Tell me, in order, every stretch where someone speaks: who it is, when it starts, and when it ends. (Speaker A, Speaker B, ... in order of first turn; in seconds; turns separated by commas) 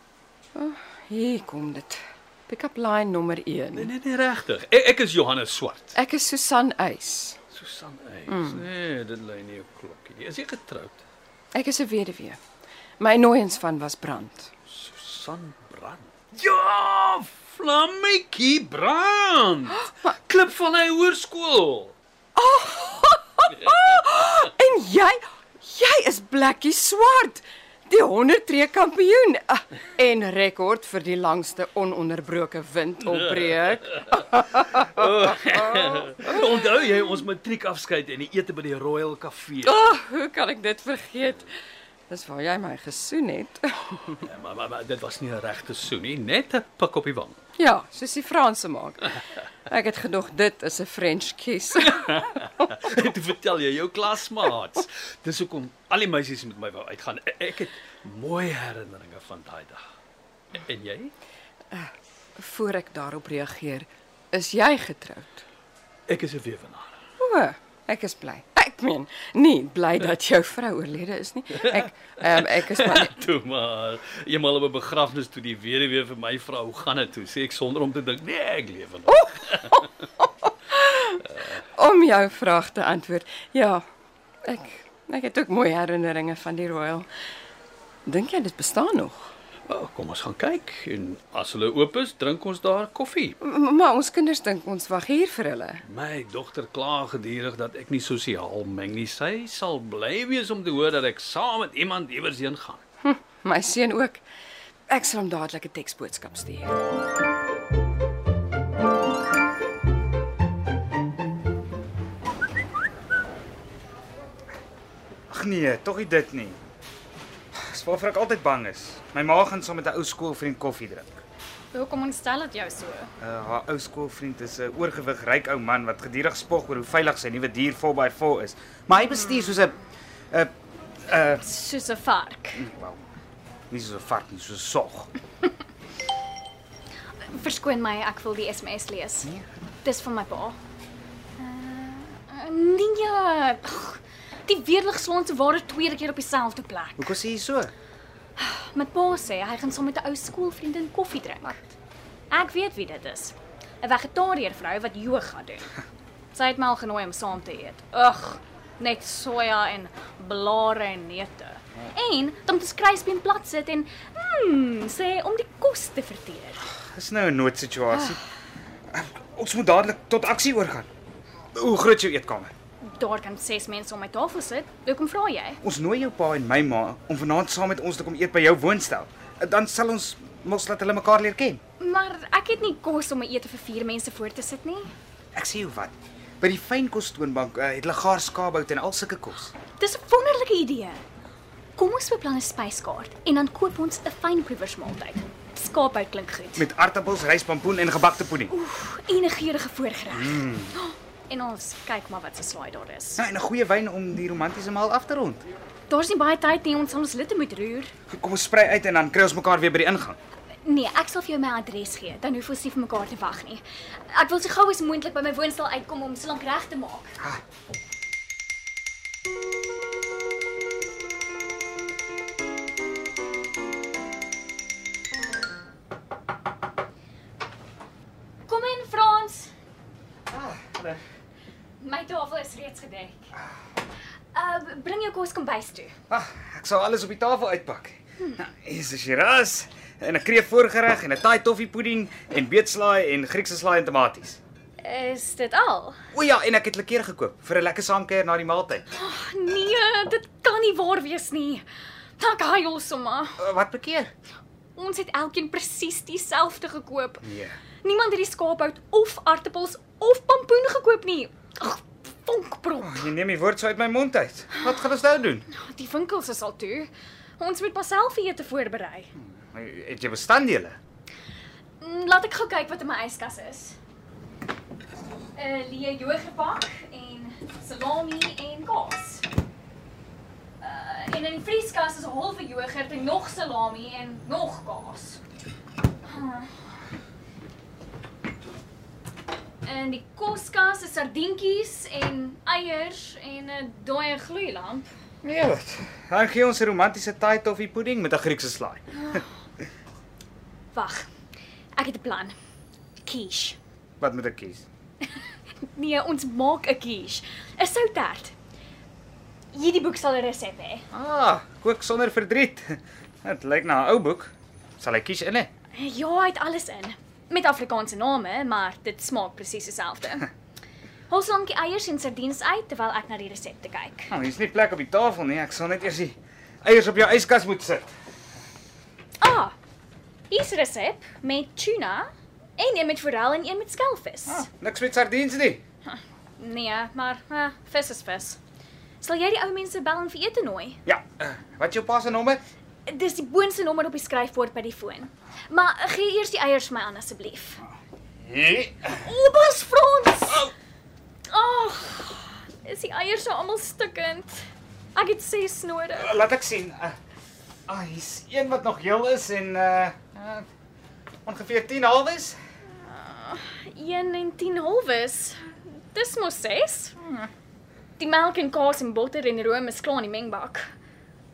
Speaker A: 0.5-3.9, Speaker B: 3.7-6.0, Speaker A: 5.9-7.4, Speaker B: 7.5-11.0, Speaker A: 8.3-8.6, Speaker A: 11.5-12.4, Speaker A: 13.0-14.5, Speaker B: 14.7-21.9, Speaker A: 22.3-36.4, Speaker B: 33.4-34.0, Speaker B: 34.8-39.9, Speaker A: 39.6-41.5, Speaker A: 42.1-44.2, Speaker B: 44.2-47.4, Speaker A: 47.6-52.6, Speaker B: 51.8-59.8, Speaker B: 60.5-61.1, Speaker A: 61.7-65.4, Speaker B: 66.1-67.0, Speaker A: 67.2-73.2, Speaker B: 71.6-79.7, Speaker A: 79.1-81.2, Speaker A: 81.7-83.8, Speaker A: 84.4-87.1, Speaker A: 88.0-89.3, Speaker B: 89.7-93.3, Speaker A: 93.4-95.8, Speaker B: 95.8-102.8, Speaker A: 103.0-104.2, Speaker A: 104.9-106.8, Speaker C: 115.3-116.6, Speaker C: 117.5-121.2, Speaker D: 121.7-123.1, Speaker C: 123.2-129.7, Speaker D: 129.3-129.5, Speaker C: 131.0-131.4, Speaker D: 131.4-132.6, Speaker C: 132.6-133.0, Speaker C: 133.7-135.1, Speaker D: 137.2-139.3, Speaker D: 139.8-140.6, Speaker D: 141.4-147.1, Speaker C: 147.0-147.7, Speaker D: 148.4-151.6, Speaker D: 152.3-155.7, Speaker D: 156.3-166.6, Speaker C: 166.9-168.2, Speaker C: 168.9-170.9, Speaker C: 171.5-172.5, Speaker D: 172.8-175.6, Speaker C: 175.6-181.6, Speaker D: 181.8-184.9, Speaker C: 185.3-189.5, Speaker D: 189.8-191.0, Speaker D: 191.8-196.6, Speaker C: 196.6-198.5, Speaker D: 198.5-203.2, Speaker C: 200.1-200.7, Speaker C: 203.2-205.4, Speaker D: 205.9-207.9, Speaker C: 208.1-210.2, Speaker D: 210.6-217.2, Speaker D: 228.5-229.5, Speaker C: 230.3-231.0, Speaker D: 231.8-233.2, Speaker D: 234.3-235.9, Speaker C: 236.1-244.4, Speaker D: 244.8-246.0, Speaker C: 246.1-248.8, Speaker D: 248.9-251.6, Speaker D: 252.2-253.4, Speaker C: 253.4-254.1, Speaker D: 254.8-257.2, Speaker C: 257.2-257.6, Speaker D: 257.8-263.1, Speaker C: 262.8-265.4, Speaker D: 265.5-269.1, Speaker C: 269.4-270.8, Speaker D: 271.8-273.8, Speaker D: 275.4-279.2, Speaker D: 280.6-285.2, Speaker D: 286.0-286.5, Speaker D: 289.6-294.9, Speaker C: 295.2-299.2, Speaker D: 300.7-301.1, Speaker D: 301.8-302.3, Speaker D: 303.0-303.6, Speaker C: 304.0-304.6, Speaker D: 305.7-308.3, Speaker D: 309.5-310.9, Speaker C: 310.9-315.5, Speaker D: 315.7-320.3, Speaker D: 321.1-324.1, Speaker C: 324.1-327.9, Speaker D: 329.2-329.5, Speaker D: 330.3-334.5, Speaker C: 334.3-335.6, Speaker D: 335.9-338.4, Speaker D: 339.0-340.8, Speaker C: 340.9-342.4, Speaker D: 342.9-347.6, Speaker C: 348.2-349.0, Speaker D: 349.0-350.5, Speaker D: 351.3-354.4, Speaker D: 354.9-356.1, Speaker C: 356.0-356.9, Speaker C: 357.7-360.4, Speaker C: 361.2-362.4, Speaker D: 362.9-366.9, Speaker C: 367.0-367.3, Speaker D: 368.0-370.7